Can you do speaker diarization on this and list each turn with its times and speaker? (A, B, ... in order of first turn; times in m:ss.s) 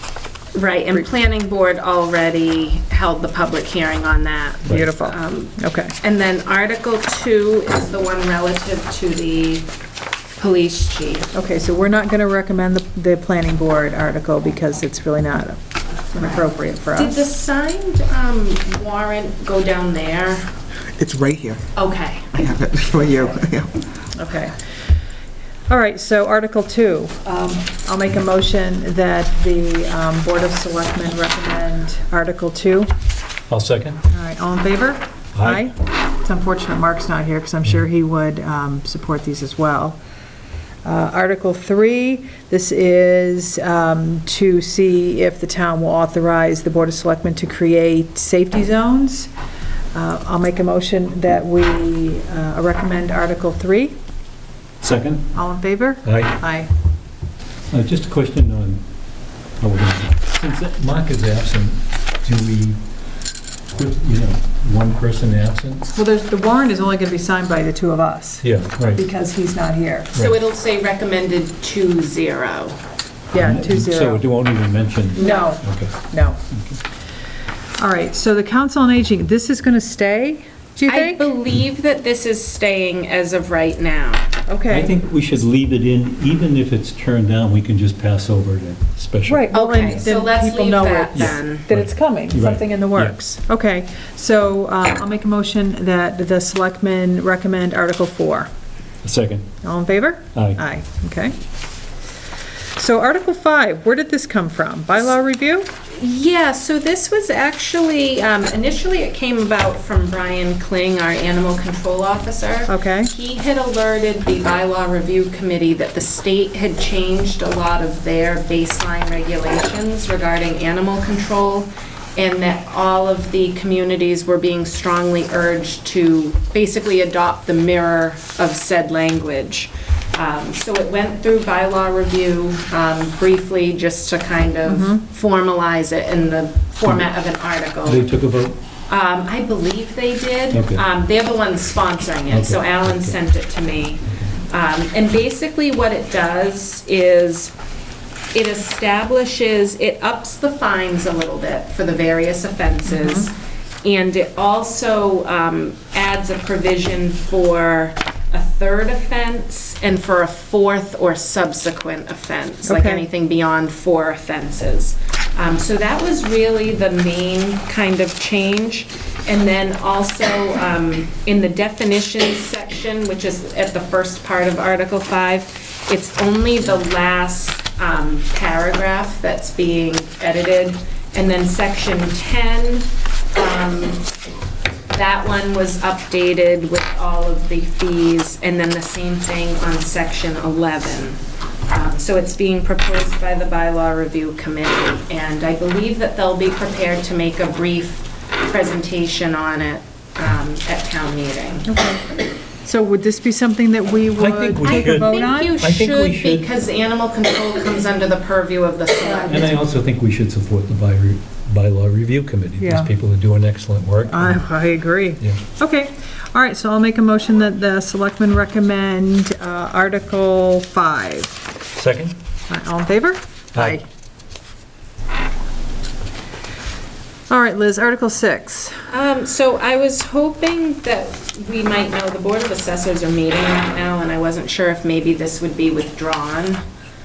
0:00.5-0:09.7 A
0:04.6-0:05.9 B
0:10.4-0:11.3 A
0:11.3-0:15.6 B
0:16.1-0:17.1 B
0:16.1-0:20.5 A
0:21.0-0:21.6 C
0:21.7-0:22.4 A
0:22.3-0:23.7 C
0:24.1-0:24.5 B
0:25.7-0:32.9 B
0:33.5-0:34.0 D
0:34.1-0:40.0 B
0:35.3-0:35.7 D
0:40.8-0:49.3 B
0:49.9-0:53.9 B
0:54.8-0:55.3 D
0:55.3-0:56.7 B
0:56.0-0:56.4 D
0:57.7-0:58.8 D
0:59.6-1:02.8 D
1:03.7-1:05.9 D
1:05.9-1:10.1 B
1:08.4-1:09.0 D
1:10.1-1:12.8 A
1:13.3-1:14.2 B
1:13.3-1:15.9 D
1:15.2-1:16.4 B
1:15.2-1:15.5 A
1:16.5-1:16.8 D
1:17.8-1:21.3 B
1:20.9-1:24.3 A
1:24.5-1:24.9 B
1:24.7-1:29.5 D
1:29.3-1:38.5 B
1:29.5-1:31.6 A
1:31.2-1:33.2 D
1:39.0-1:39.5 D
1:39.6-1:41.4 B
1:40.3-1:40.6 D
1:42.8-1:45.7 B
1:46.0-2:18.0 A
1:52.7-1:53.1 B
2:14.7-2:15.0 B
2:17.8-2:18.6 D
2:18.9-2:27.5 A
2:20.5-2:20.8 D
2:22.3-2:23.2 D
2:28.3-2:33.3 A
2:32.9-2:33.2 B
2:33.8-3:04.1 A
2:42.7-2:43.0 B
3:04.9-3:21.7 A
3:21.6-3:22.0 B
3:22.6-3:25.5 B
3:24.2-3:26.5 D
3:24.6-3:29.6 A
3:29.2-3:34.4 D
3:32.6-3:32.9 B
3:34.1-3:41.4 B
3:41.8-3:42.2 D
3:42.5-3:43.8 B
3:43.5-3:43.8 D
3:47.3-3:48.8 B
3:48.9-3:56.6 A